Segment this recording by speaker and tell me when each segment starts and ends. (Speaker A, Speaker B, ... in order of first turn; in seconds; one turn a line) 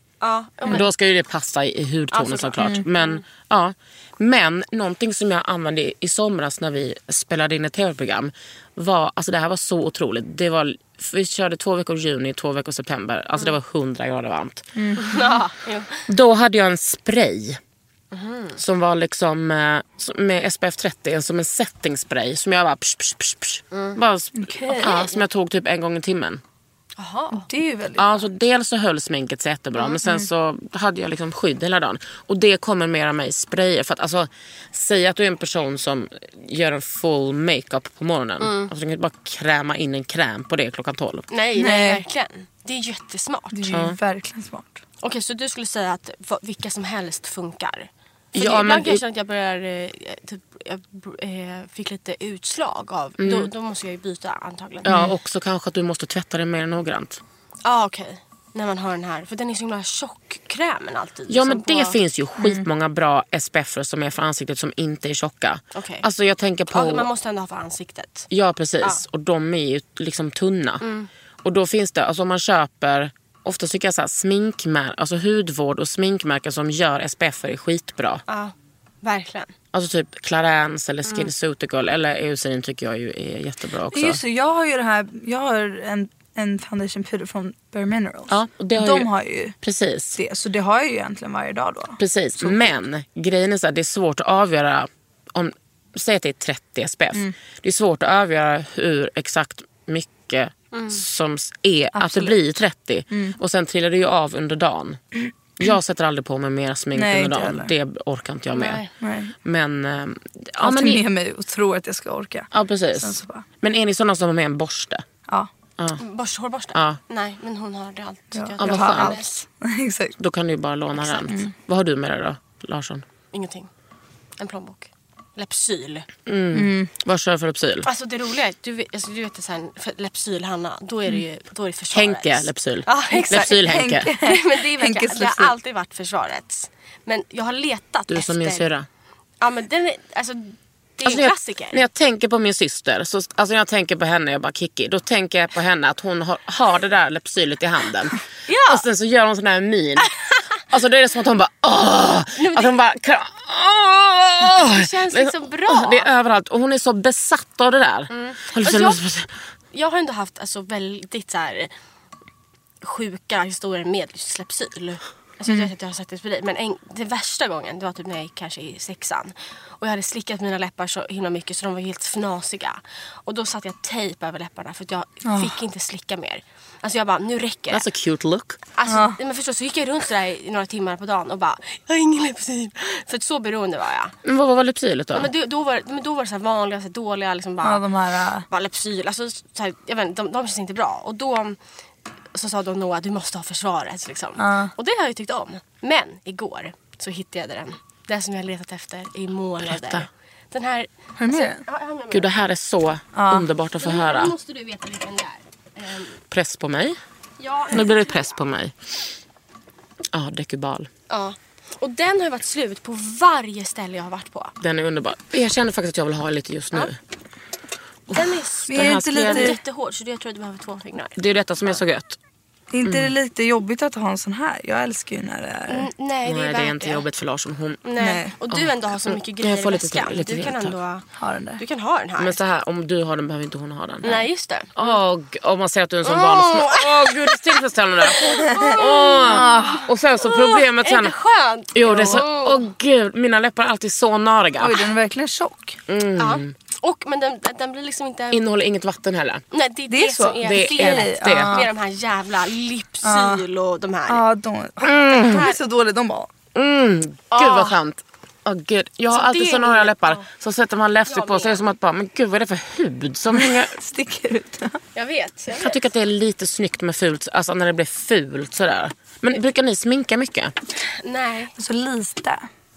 Speaker A: 0.2-0.8
Speaker B: 0.7-14.7
Speaker A: 2.1-3.2
Speaker C: 2.6-2.9
Speaker C: 14.8-15.3
Speaker A: 15.0-16.0
Speaker B: 16.1-17.6
Speaker A: 18.1-18.6
Speaker B: 18.6-26.4
Speaker A: 23.7-24.0
Speaker C: 24.3-25.0
Speaker A: 24.6-25.2
Speaker A: 27.0-27.5
Speaker C: 27.3-28.3
Speaker B: 28.0-41.3
Speaker A: 38.4-38.7
Speaker A: 41.3-43.7
Speaker C: 41.5-42.0
Speaker C: 43.5-44.8
Speaker B: 43.7-44.0
Speaker A: 45.0-54.9
Speaker B: 48.3-49.0
Speaker B: 53.2-53.5
Speaker B: 54.8-57.2
Speaker A: 57.6-62.0
Speaker B: 61.3-67.1
Speaker C: 62.4-62.6
Speaker A: 65.7-66.0
Speaker A: 66.7-68.3
Speaker B: 68.3-70.8
Speaker A: 70.8-71.1
Speaker B: 71.4-78.2
Speaker A: 78.3-79.5
Speaker B: 79.7-84.2
Speaker C: 83.9-89.5
Speaker B: 88.3-89.1
Speaker B: 89.6-90.2
Speaker C: 90.2-92.7
Speaker B: 92.0-105.0
Speaker A: 100.7-101.0
Speaker C: 101.9-102.3
Speaker C: 103.1-103.4
Speaker B: 105.5-108.8
Speaker C: 106.9-107.7
Speaker A: 108.5-108.9
Speaker C: 109.0-109.3
Speaker B: 109.4-111.0
Speaker C: 110.6-113.4
Speaker B: 112.5-115.0
Speaker A: 116.0-119.4
Speaker B: 116.7-117.0
Speaker C: 118.3-120.2
Speaker B: 118.6-119.2
Speaker B: 120.2-123.0
Speaker C: 121.2-121.5
Speaker A: 123.3-123.7
Speaker A: 124.4-126.1
Speaker B: 126.3-127.9
Speaker C: 126.5-126.9
Speaker A: 127.8-133.6
Speaker B: 131.9-134.1
Speaker C: 133.6-135.5
Speaker A: 134.2-138.7
Speaker B: 138.1-138.9
Speaker A: 139.4-141.8
Speaker B: 141.0-159.3
Speaker A: 148.5-148.8
Speaker A: 152.4-152.8
Speaker A: 154.4-156.1
Speaker A: 158.1-159.0
Speaker A: 159.7-161.7
Speaker A: 162.8-177.8
Speaker C: 175.2-175.6
Speaker B: 177.7-178.6
Speaker A: 178.7-184.1
Speaker C: 178.9-179.2
Speaker B: 184.2-185.3
Speaker A: 185.1-187.8
Speaker C: 187.6-188.5
Speaker A: 188.5-191.6
Speaker A: 192.3-202.3
Speaker C: 194.4-194.7
Speaker B: 199.7-200.1
Speaker C: 201.2-201.6
Speaker B: 202.1-204.3
Speaker C: 203.1-203.5
Speaker A: 203.8-206.2
Speaker B: 206.3-207.0
Speaker A: 207.4-208.4
Speaker B: 207.7-208.7
Speaker B: 210.1-210.9
Speaker A: 211.1-214.5
Speaker B: 214.6-217.0
Speaker A: 218.1-221.8
Speaker B: 218.1-219.6
Speaker C: 218.7-219.6
Speaker B: 221.2-222.2
Speaker C: 222.7-225.9
Speaker B: 222.8-223.1
Speaker A: 225.7-227.0
Speaker B: 226.2-227.8
Speaker A: 227.8-231.0
Speaker C: 228.0-228.4
Speaker B: 228.5-230.7
Speaker C: 231.2-231.6
Speaker A: 231.6-232.4
Speaker B: 232.2-241.1
Speaker A: 234.0-235.0
Speaker A: 236.0-242.6
Speaker C: 239.2-239.9
Speaker B: 241.7-244.8
Speaker C: 241.8-242.2
Speaker C: 244.6-245.8
Speaker B: 245.9-246.5
Speaker A: 246.2-248.4
Speaker B: 248.3-249.4
Speaker A: 249.5-254.2
Speaker C: 249.9-251.7
Speaker B: 250.4-251.7
Speaker C: 253.0-253.4
Speaker C: 254.1-256.3
Speaker B: 254.9-255.4
Speaker A: 255.2-255.6
Speaker B: 256.5-263.8
Speaker A: 257.3-257.8
Speaker A: 259.1-260.2
Speaker A: 261.1-261.6
Speaker C: 263.3-264.8
Speaker A: 264.9-265.8
Speaker B: 265.5-270.5
Speaker A: 271.0-271.5
Speaker C: 271.6-272.5